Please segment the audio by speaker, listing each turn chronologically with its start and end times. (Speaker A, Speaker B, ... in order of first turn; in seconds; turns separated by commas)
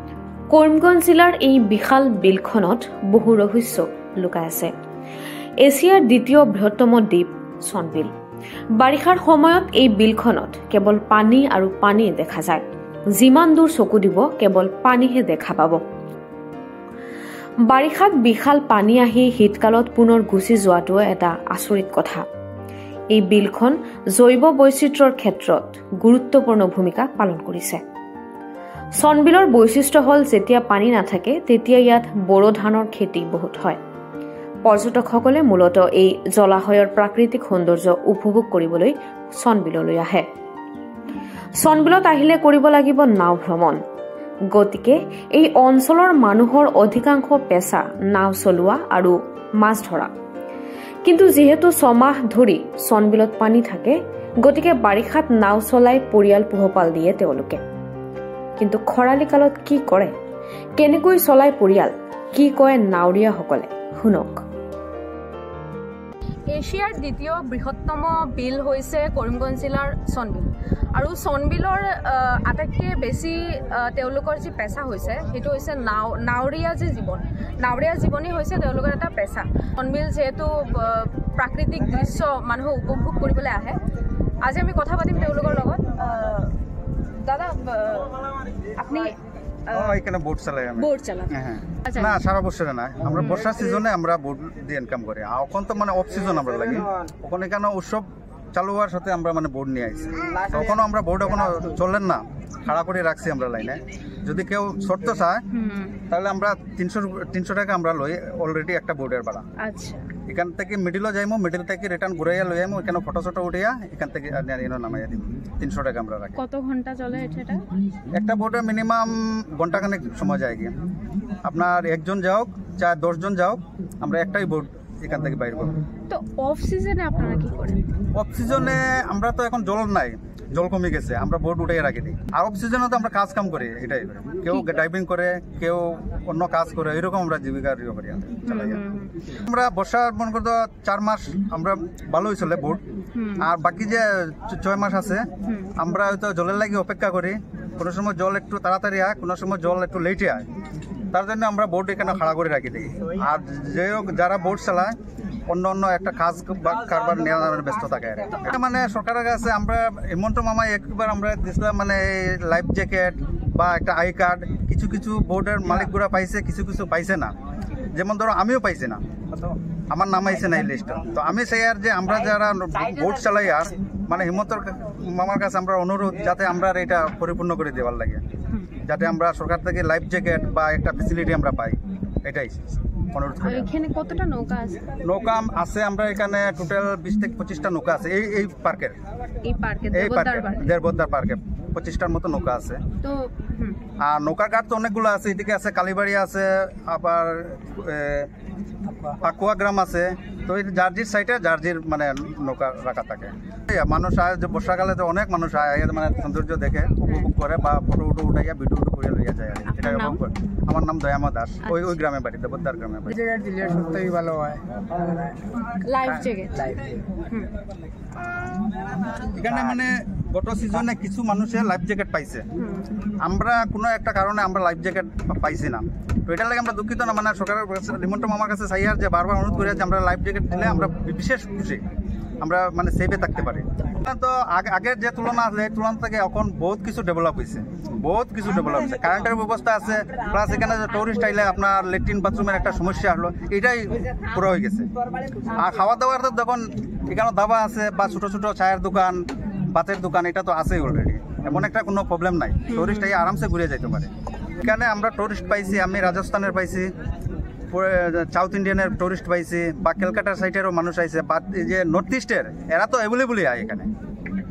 Speaker A: 0.5-4.7, Speaker A: 5.6-8.1, Speaker A: 8.8-12.6, Speaker A: 13.2-15.8, Speaker A: 17.7-22.2, Speaker A: 23.1-27.8, Speaker A: 29.0-33.8, Speaker A: 34.6-40.3, Speaker A: 41.6-43.8, Speaker A: 44.5-50.1, Speaker A: 51.0-57.6, Speaker A: 58.6-60.1, Speaker A: 60.8-64.4, Speaker B: 66.5-83.8, Speaker B: 84.4-86.6, Speaker B: 87.2-89.2, Speaker B: 89.7-90.0, Speaker C: 89.7-105.4, Speaker B: 90.8-92.2, Speaker B: 105.5-106.0, Speaker C: 106.1-109.4, Speaker B: 109.6-110.1, Speaker C: 110.3-116.4, Speaker B: 116.4-117.7, Speaker C: 118.1-120.7, Speaker C: 121.4-125.8, Speaker B: 126.1-127.8, Speaker C: 128.2-138.8, Speaker B: 138.4-139.2, Speaker C: 139.4-142.8, Speaker B: 143.2-143.5, Speaker C: 143.4-145.2, Speaker B: 145.5-145.7, Speaker C: 145.8-150.5, Speaker C: 151.1-154.9, Speaker C: 155.5-167.3, Speaker C: 168.0-178.2, Speaker C: 178.8-182.6, Speaker C: 183.1-183.7, Speaker B: 183.4-184.8, Speaker C: 185.0-189.0, Speaker B: 189.4-190.7, Speaker C: 189.9-192.8, Speaker B: 193.0-193.8, Speaker C: 194.0-198.3, Speaker C: 199.2-213.2, Speaker B: 209.7-210.2, Speaker B: 211.6-212.0, Speaker D: 213.2-215.4, Speaker B: 215.8-216.7, Speaker D: 216.6-217.0, Speaker C: 219.3-222.4, Speaker B: 222.6-222.9, Speaker C: 223.2-231.8, Speaker C: 232.4-244.9, Speaker C: 245.5-256.9, Speaker B: 252.7-253.1, Speaker C: 257.7-263.9